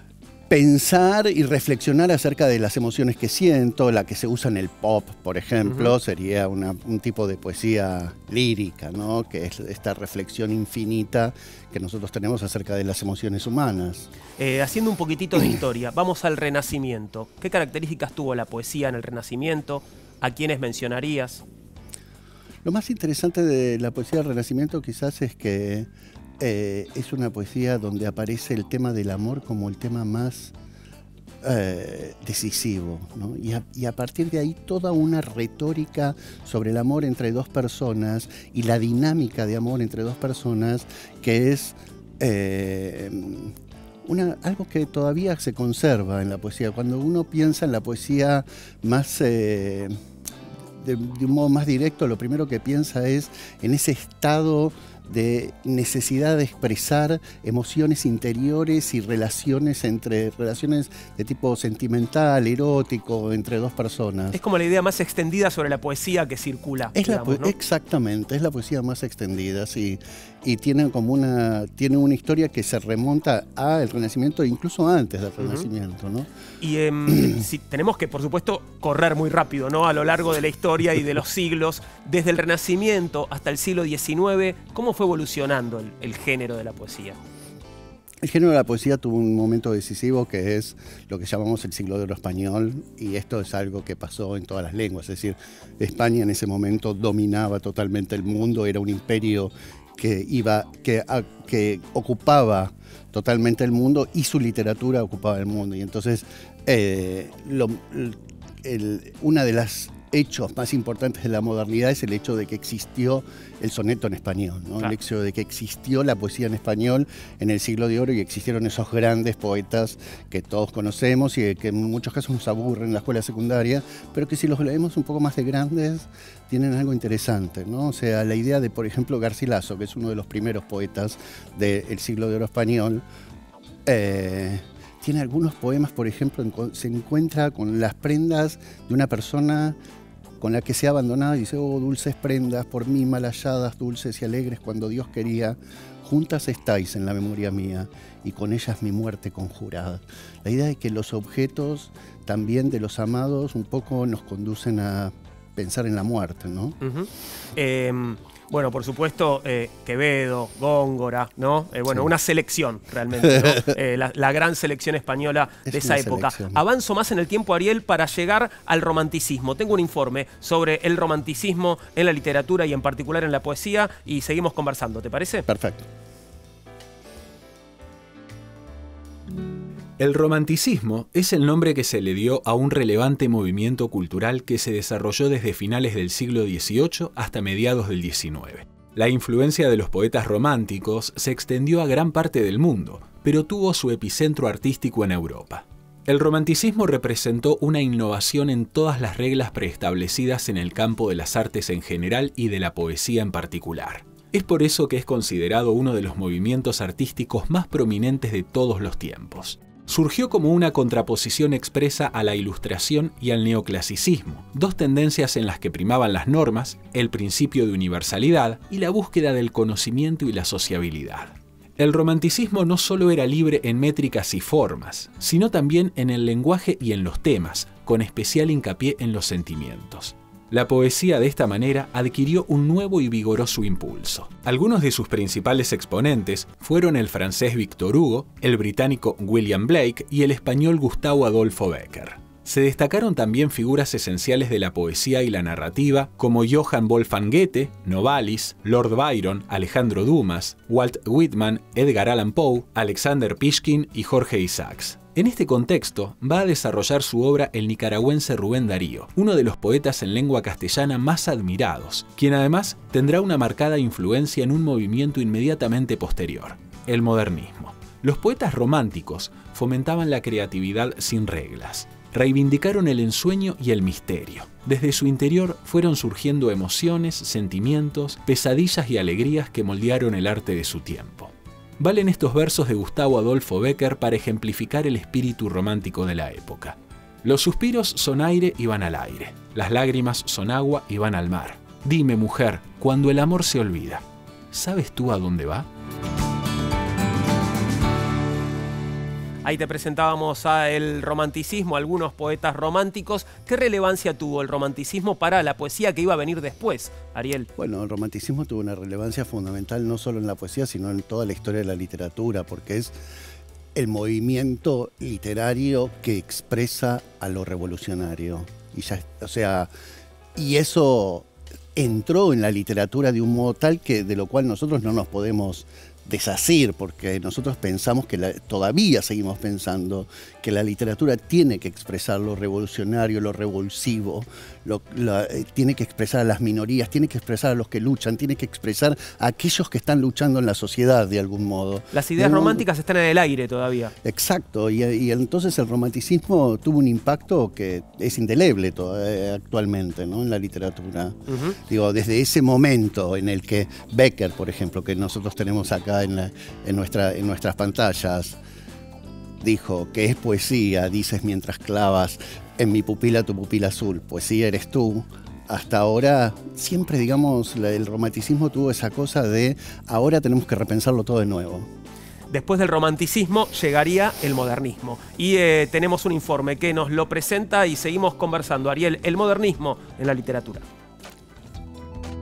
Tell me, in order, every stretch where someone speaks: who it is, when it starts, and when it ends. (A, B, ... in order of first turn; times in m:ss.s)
0:00.5-0:14.1 A
0:14.4-0:21.4 B
0:22.6-0:30.5 A
0:31.4-0:43.5 A
0:44.0-0:49.9 A
0:50.8-1:04.4 A
1:04.3-1:07.5 B
1:06.9-1:16.3 A
1:15.4-1:15.6 B
1:16.6-1:27.2 B
1:17.1-1:17.4 A
1:28.2-2:13.0 A
2:13.8-2:19.8 A
2:20.4-2:36.8 A
2:36.8-2:55.4 B
2:43.3-2:43.6 A
2:45.6-2:46.6 A
2:55.5-2:55.9 A
3:00.0-4:55.7 C
4:59.4-5:07.5 B
5:07.6-5:12.9 A
5:13.7-5:19.7 A
5:20.3-5:42.6 A
5:41.9-5:43.9 B
5:44.0-5:58.4 A
5:51.3-5:51.6 B
5:59.4-6:11.7 A
6:12.3-6:20.6 B